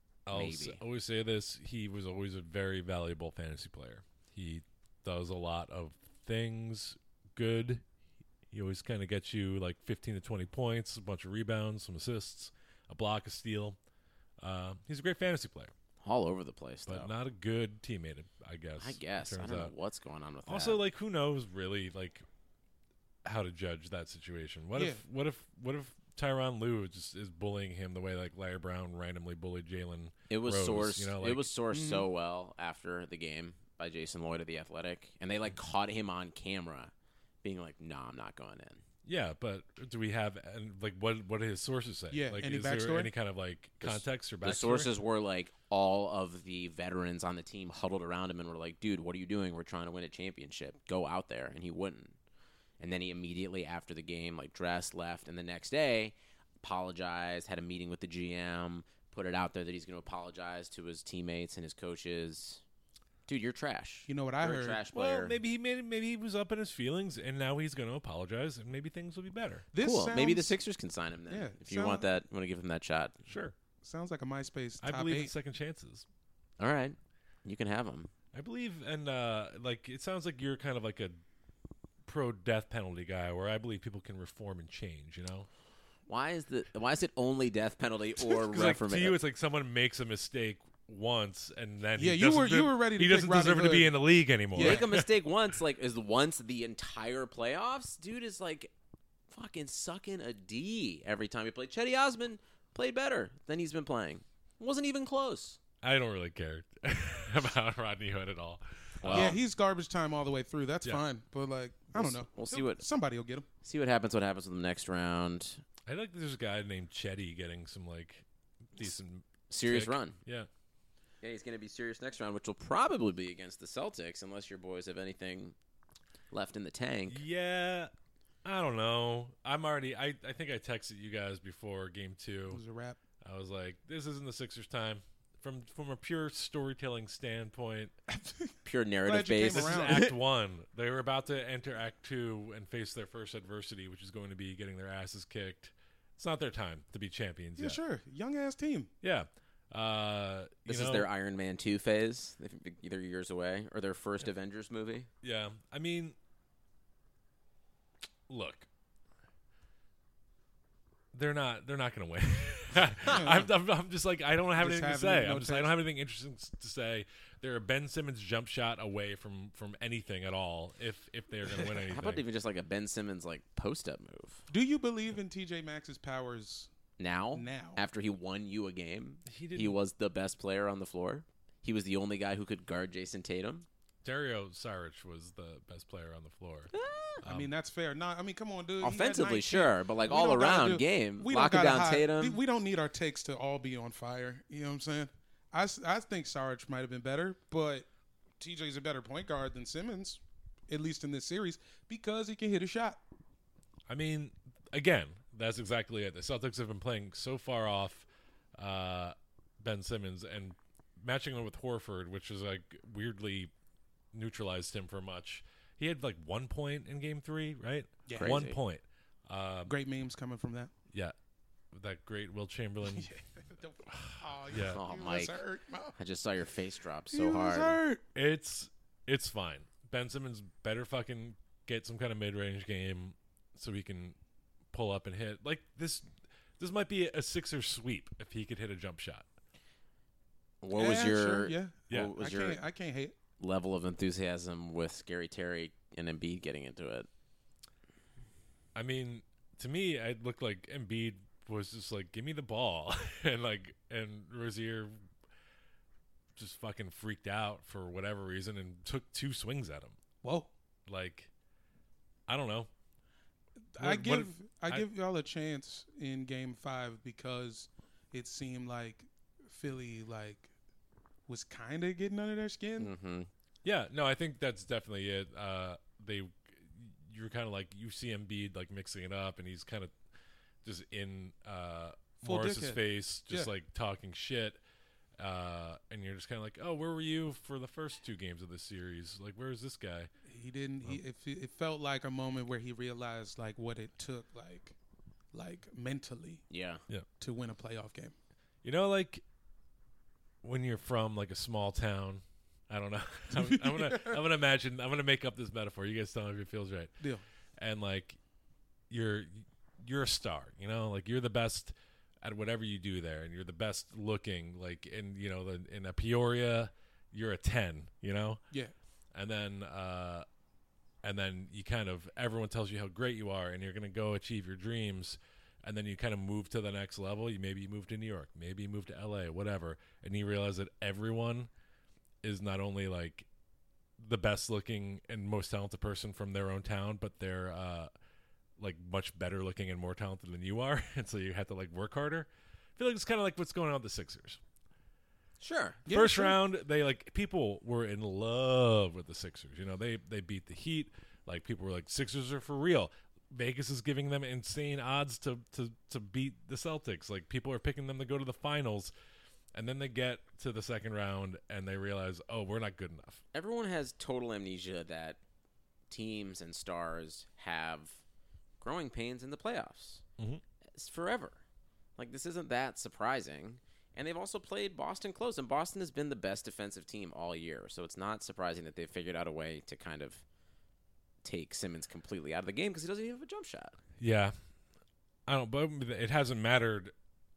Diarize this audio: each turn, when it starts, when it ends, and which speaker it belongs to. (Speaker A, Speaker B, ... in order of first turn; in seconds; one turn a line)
Speaker A: 0.2-7.8
Speaker B: 0.3-0.8
Speaker A: 8.5-13.8
Speaker A: 14.4-15.7
Speaker B: 16.0-17.1
Speaker A: 16.9-19.7
Speaker B: 18.8-20.8
Speaker A: 20.5-22.2
Speaker A: 23.2-31.5
Speaker C: 24.7-25.0
Speaker B: 30.3-36.9
Speaker C: 31.7-32.1
Speaker B: 37.4-38.8
Speaker A: 39.0-44.9
Speaker C: 42.1-43.1
Speaker B: 43.8-52.1
Speaker B: 52.8-62.6
Speaker B: 63.3-65.3
Speaker C: 64.1-64.8
Speaker A: 64.9-69.7
Speaker C: 69.7-70.5
Speaker B: 69.8-73.2
Speaker C: 71.3-72.1
Speaker A: 73.2-73.5
Speaker C: 73.8-75.3
Speaker A: 74.8-76.0
Speaker B: 76.6-78.1
Speaker A: 78.3-81.2
Speaker A: 82.0-85.5
Speaker B: 86.1-89.2
Speaker A: 88.2-95.1
Speaker C: 92.0-94.0
Speaker C: 94.5-94.9
Speaker B: 94.6-98.7
Speaker B: 99.3-105.6
Speaker A: 105.8-109.4
Speaker B: 109.0-109.4
Speaker C: 109.1-113.5
Speaker B: 111.9-112.8
Speaker B: 113.6-115.6
Speaker A: 115.9-118.2
Speaker A: 118.8-120.5
Speaker B: 119.5-120.2
Speaker B: 121.2-125.5
Speaker B: 126.3-127.2
Speaker A: 127.1-127.9
Speaker A: 128.4-132.6
Speaker C: 132.5-133.0
Speaker A: 133.2-137.9
Speaker C: 138.1-138.5
Speaker B: 138.6-140.1
Speaker C: 139.0-140.1
Speaker A: 139.4-147.8
Speaker C: 147.6-148.9
Speaker A: 149.0-151.1
Speaker B: 150.7-155.1
Speaker A: 155.2-156.1
Speaker A: 158.3-158.7
Speaker A: 161.1-172.2
Speaker C: 163.1-163.5
Speaker C: 164.6-165.7
Speaker B: 171.8-174.4
Speaker C: 174.5-176.7
Speaker B: 177.0-183.7
Speaker C: 177.3-177.8
Speaker A: 179.3-179.8
Speaker A: 184.0-186.7
Speaker B: 186.7-187.2
Speaker A: 187.2-187.5
Speaker C: 187.2-197.9
Speaker B: 188.8-192.4
Speaker C: 198.4-203.0
Speaker A: 203.9-208.1
Speaker A: 208.6-213.5
Speaker A: 214.1-219.7
Speaker C: 218.1-218.4
Speaker B: 218.1-218.6
Speaker C: 219.7-220.7
Speaker A: 221.7-223.1
Speaker C: 222.8-225.9
Speaker A: 223.9-224.8
Speaker B: 224.7-225.4
Speaker B: 226.0-227.8
Speaker C: 227.1-228.0
Speaker A: 228.1-234.2
Speaker A: 234.7-236.1
Speaker A: 236.6-239.2
Speaker B: 240.6-242.6
Speaker C: 240.7-243.2
Speaker B: 243.4-247.1
Speaker A: 248.7-254.9
Speaker A: 256.4-260.0
Speaker C: 260.2-260.5
Speaker A: 260.9-261.3
Speaker A: 262.3-262.7
Speaker C: 263.7-270.5
Speaker A: 263.8-264.9
Speaker C: 271.3-272.9
Speaker B: 272.8-273.3
Speaker A: 273.6-279.9
Speaker A: 280.6-284.6
Speaker C: 282.2-283.5
Speaker A: 285.2-290.1
Speaker C: 290.3-294.7
Speaker C: 295.3-296.4
Speaker B: 296.5-296.8
Speaker C: 297.2-298.1
Speaker A: 298.6-299.2
Speaker A: 300.4-306.9
Speaker C: 303.3-304.2
Speaker A: 307.6-308.2
Speaker A: 308.9-318.4
Speaker A: 319.1-320.2
Speaker A: 321.0-331.5
Speaker A: 332.2-333.2
Speaker A: 334.0-337.9
Speaker A: 338.6-344.4
Speaker B: 345.4-345.8
Speaker C: 345.9-346.4
Speaker A: 345.9-358.9
Speaker A: 359.5-363.2
Speaker B: 363.3-365.2
Speaker B: 365.9-368.0
Speaker B: 368.6-370.0
Speaker B: 370.7-371.4
Speaker B: 372.0-380.2
Speaker B: 381.2-383.8
Speaker A: 384.0-384.3
Speaker A: 385.3-386.9